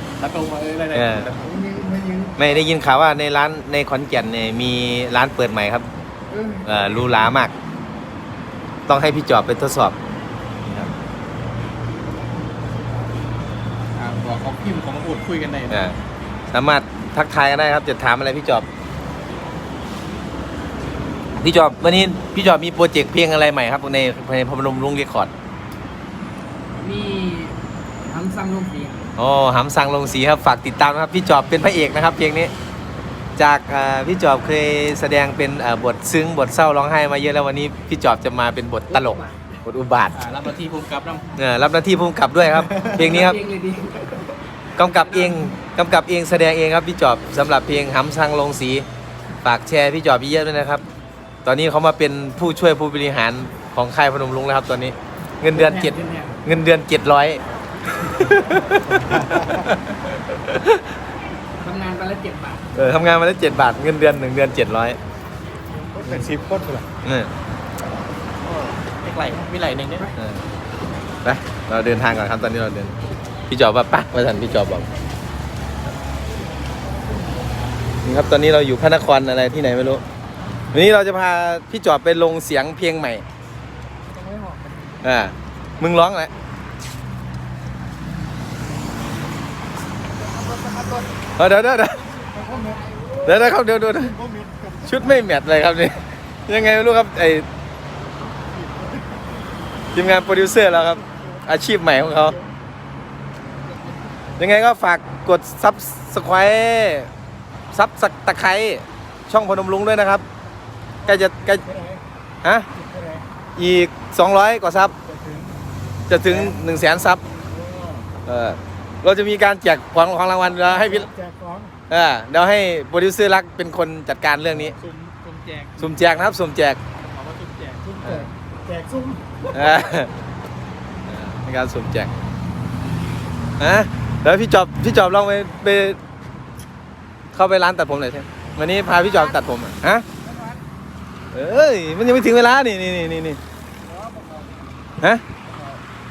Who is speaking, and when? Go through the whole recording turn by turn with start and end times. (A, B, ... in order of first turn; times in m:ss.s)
0:00.2-0:02.4 A
0:00.9-0:01.3 B
0:01.4-0:01.9 C
0:02.4-0:05.9 B
0:06.3-0:06.6 D
0:06.6-0:07.5 B
0:08.9-0:10.0 B
0:14.0-0:15.8 A
0:15.7-0:16.0 B
0:16.5-0:18.6 B
0:21.4-0:25.3 B
0:26.8-0:29.1 D
0:29.2-0:32.5 B
0:33.4-0:40.2 B
0:38.9-0:39.5 D
0:40.1-0:41.3 A
0:41.4-0:43.4 B
0:42.8-0:45.5 D
0:44.8-0:48.8 B
0:49.4-0:50.8 B
0:51.4-0:57.4 B
0:55.5-0:56.4 D
0:58.0-1:00.8 B
0:58.6-0:59.5 C
1:01.6-1:02.7 D
1:02.7-1:05.0 B
1:05.8-1:06.8 C
1:07.0-1:07.3 B
1:08.4-1:10.1 A
1:10.2-1:10.4 B
1:11.2-1:13.0 B
1:13.5-1:14.9 B
1:18.0-1:20.0 B
1:20.7-1:23.2 B
1:24.0-1:25.0 D
1:25.0-1:26.3 B
1:30.1-1:31.2 D
1:31.4-1:32.1 B
1:32.2-1:33.4 D
1:32.3-1:32.8 C
1:33.2-1:34.2 B
1:34.1-1:35.0 C
1:34.8-1:37.5 B
1:39.9-1:42.4 B
1:43.6-1:44.4 D
1:44.4-1:47.1 B
1:47.7-1:50.2 B
1:51.0-1:51.6 B
1:51.5-1:52.0 C
1:52.8-1:53.2 C
1:53.6-1:54.9 B
1:55.0-1:55.5 C
1:56.1-1:57.2 B
1:56.3-1:56.5 C
1:57.5-1:58.0 C
1:58.2-2:01.1 B
2:00.6-2:01.7 C
2:01.9-2:04.8 B
2:04.5-2:05.9 A
2:05.8-2:06.8 B
2:07.1-2:07.8 A
2:07.8-2:08.3 D
2:08.0-2:08.3 B
2:08.6-2:09.4 C
2:09.5-2:10.1 B
2:11.1-2:12.1 B
2:13.6-2:16.0 B
2:17.3-2:20.0 B
2:18.8-2:19.5 D
2:20.2-2:20.6 D
2:21.3-2:23.4 B
2:23.8-2:24.8 D
2:25.5-2:25.8 D